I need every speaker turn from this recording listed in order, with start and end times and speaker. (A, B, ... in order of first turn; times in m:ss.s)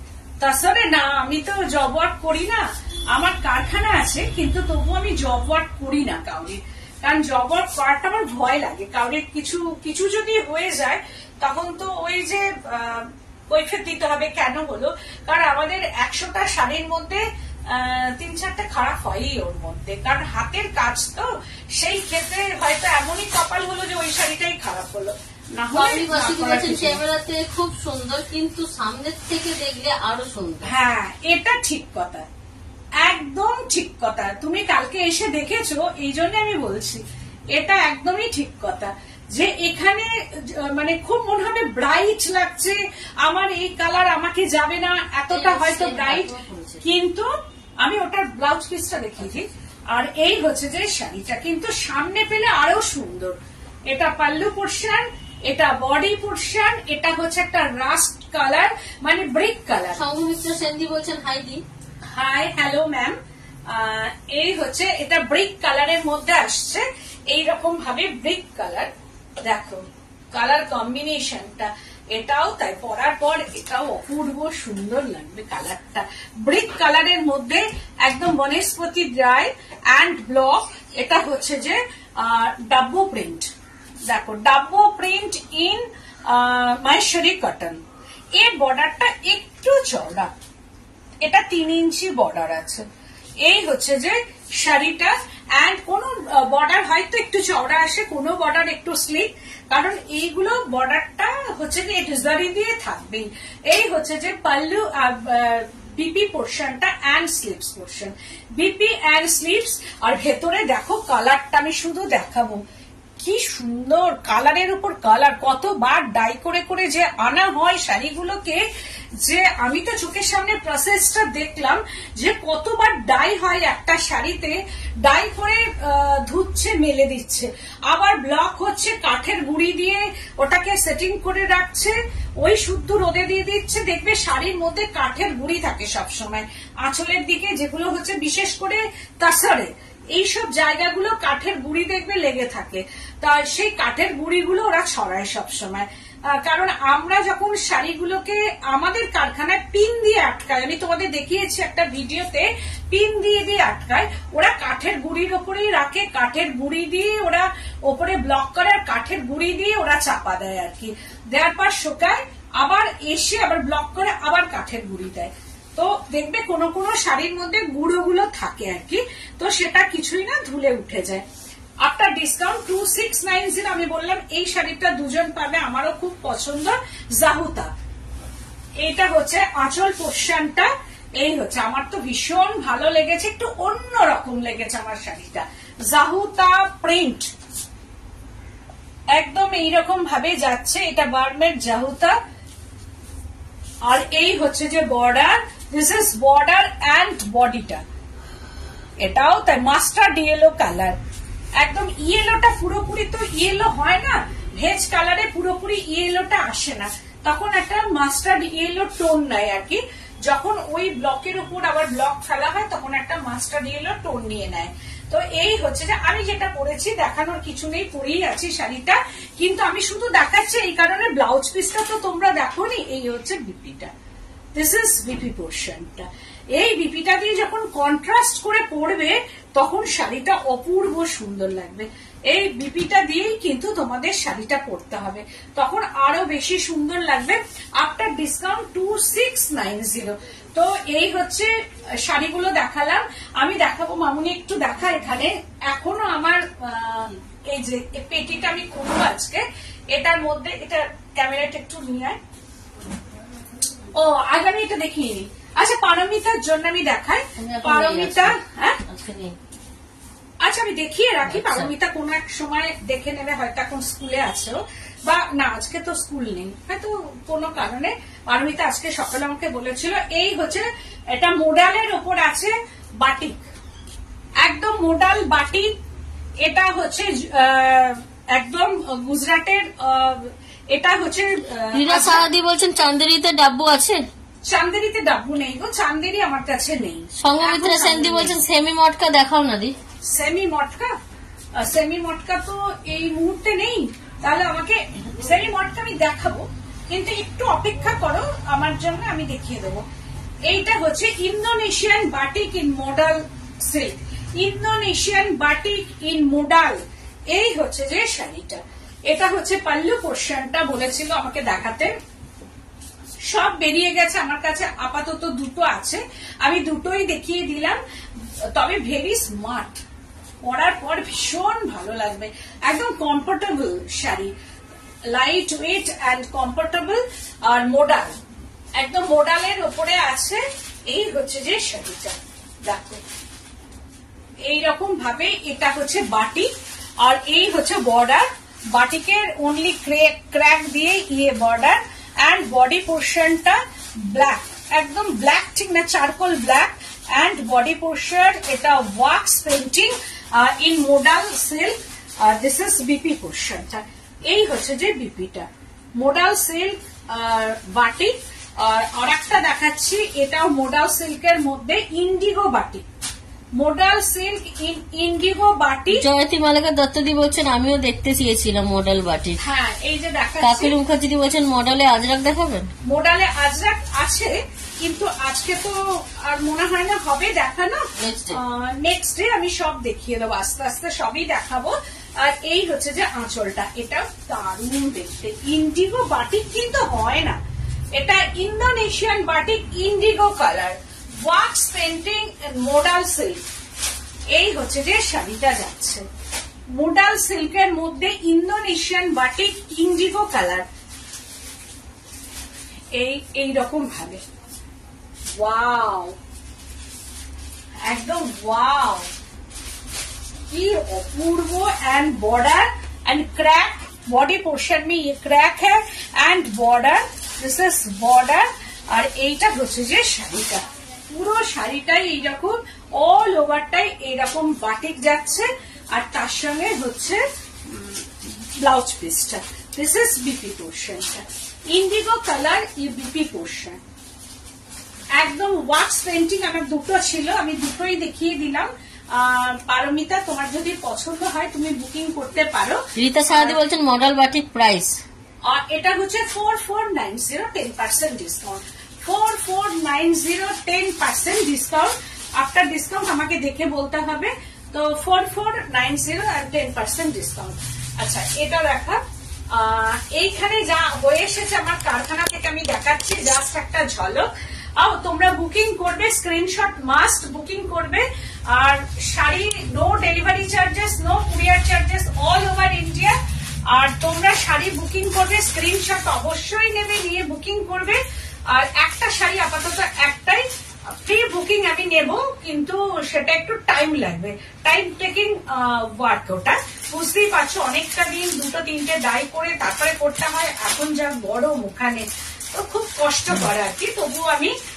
0:00.4-0:27.0 A
0:25.7-0:30.7 B
0:30.6-0:32.2 A
0:33.0-0:46.3 A
0:45.3-0:46.8 B
0:46.8-0:53.4 A
0:53.9-1:00.0 A
1:00.0-1:01.6 B
1:02.1-1:03.2 A
1:03.7-1:23.5 A
1:24.0-1:27.8 A
1:28.4-1:30.3 A
1:31.2-1:32.8 A
1:33.4-1:52.6 A
1:53.2-1:58.6 A
1:59.2-2:51.2 A
2:51.8-2:57.7 A
2:58.8-3:07.3 A
3:09.1-3:12.2 A
3:13.8-3:17.8 A
3:19.0-3:21.0 A
3:21.6-3:43.9 A
3:44.5-4:12.2 A
4:13.9-4:18.8 A
4:17.4-4:19.4 B
4:20.4-4:33.4 A
4:21.2-4:21.7 B
4:34.4-4:35.7 A
4:36.4-4:42.3 A
4:41.7-4:44.1 B
4:44.4-4:48.4 A
4:47.2-4:49.8 B
4:50.0-4:50.9 A
4:51.5-4:59.8 A
5:00.5-5:11.9 A
5:13.2-5:17.8 A
5:18.5-5:19.8 A
5:20.4-5:24.3 A
5:25.1-5:28.1 A
5:28.8-5:33.0 A
5:34.4-6:02.8 A
6:03.6-6:06.0 A
6:05.9-6:09.4 B
6:09.4-6:10.8 A
6:10.4-6:12.7 B
6:12.8-6:27.4 A
6:18.0-6:18.4 B
6:27.9-6:33.4 A
6:34.3-6:36.0 A
6:36.8-6:40.6 A
6:42.9-6:44.2 A
6:45.4-6:46.1 A
6:47.8-6:49.1 A
6:50.5-7:13.8 A
7:15.2-7:23.6 A
7:23.0-7:25.0 B
7:25.4-7:53.1 A
7:53.7-8:14.5 A